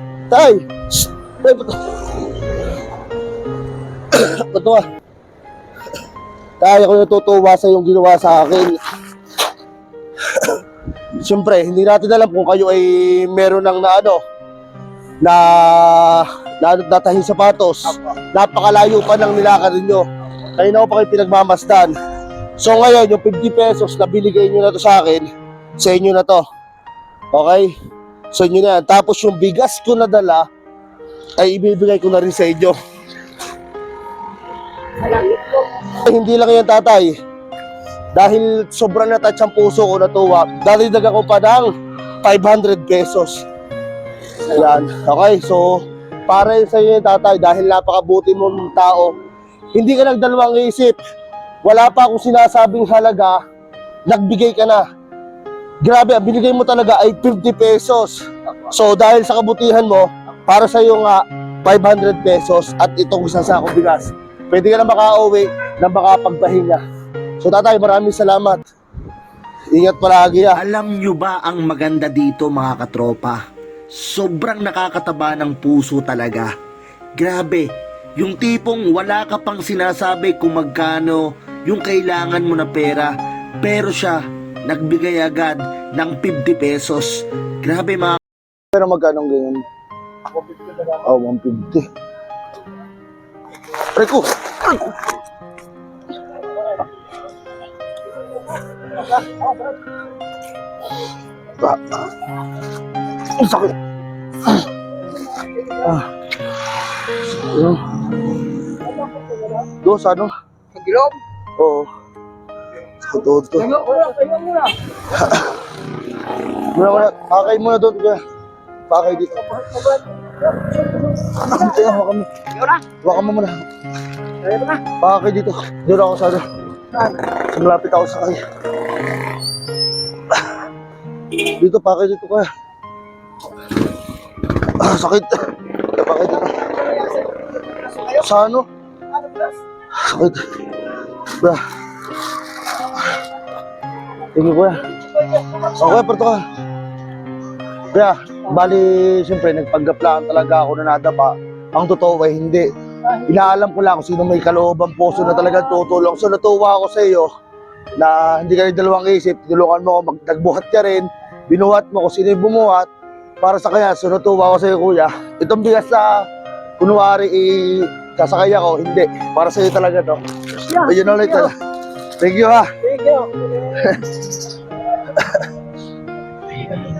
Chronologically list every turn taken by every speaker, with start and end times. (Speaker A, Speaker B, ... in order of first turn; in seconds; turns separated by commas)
Speaker A: 0.3-1.9, Speaker A: 4.1-4.8, Speaker A: 6.6-8.8, Speaker A: 11.2-14.2, Speaker A: 15.2-20.0, Speaker A: 20.6-21.9, Speaker A: 22.6-26.4, Speaker A: 27.3-27.7, Speaker A: 28.3-30.4, Speaker A: 31.4-32.7, Speaker A: 35.0-37.1, Speaker A: 38.1-41.7, Speaker A: 42.2-43.4, Speaker A: 44.5-45.7, Speaker A: 46.3-49.1, Speaker A: 49.7-50.9, Speaker A: 51.6-53.4, Speaker A: 54.1-54.8, Speaker A: 55.8-58.1, Speaker A: 58.7-66.8, Speaker A: 67.4-68.6, Speaker A: 69.7-70.6, Speaker B: 70.5-76.5, Speaker B: 77.2-88.2, Speaker A: 88.7-89.6, Speaker A: 90.6-91.8, Speaker A: 93.9-94.9, Speaker A: 101.6-102.0, Speaker A: 103.3-103.7, Speaker A: 105.8-106.0, Speaker A: 107.3-108.2, Speaker A: 109.5-110.3, Speaker C: 110.8-111.2, Speaker A: 111.6-111.9, Speaker A: 113.0-113.7, Speaker C: 113.6-114.7, Speaker A: 115.1-115.5, Speaker A: 116.6-118.2, Speaker A: 118.9-119.5, Speaker C: 119.6-120.0, Speaker A: 120.8-122.3, Speaker A: 122.9-123.6, Speaker C: 124.5-124.7, Speaker A: 124.8-126.4, Speaker A: 127.0-128.4, Speaker A: 131.6-132.4, Speaker A: 134.6-137.1, Speaker A: 137.9-138.7, Speaker A: 140.0-140.5, Speaker A: 141.2-141.6, Speaker A: 144.3-144.9, Speaker A: 145.4-146.4, Speaker A: 147.9-157.3, Speaker A: 157.9-162.9, Speaker A: 163.4-166.2, Speaker A: 166.8-171.5, Speaker C: 170.8-171.4, Speaker A: 172.2-172.7, Speaker C: 172.9-173.5, Speaker A: 173.6-174.3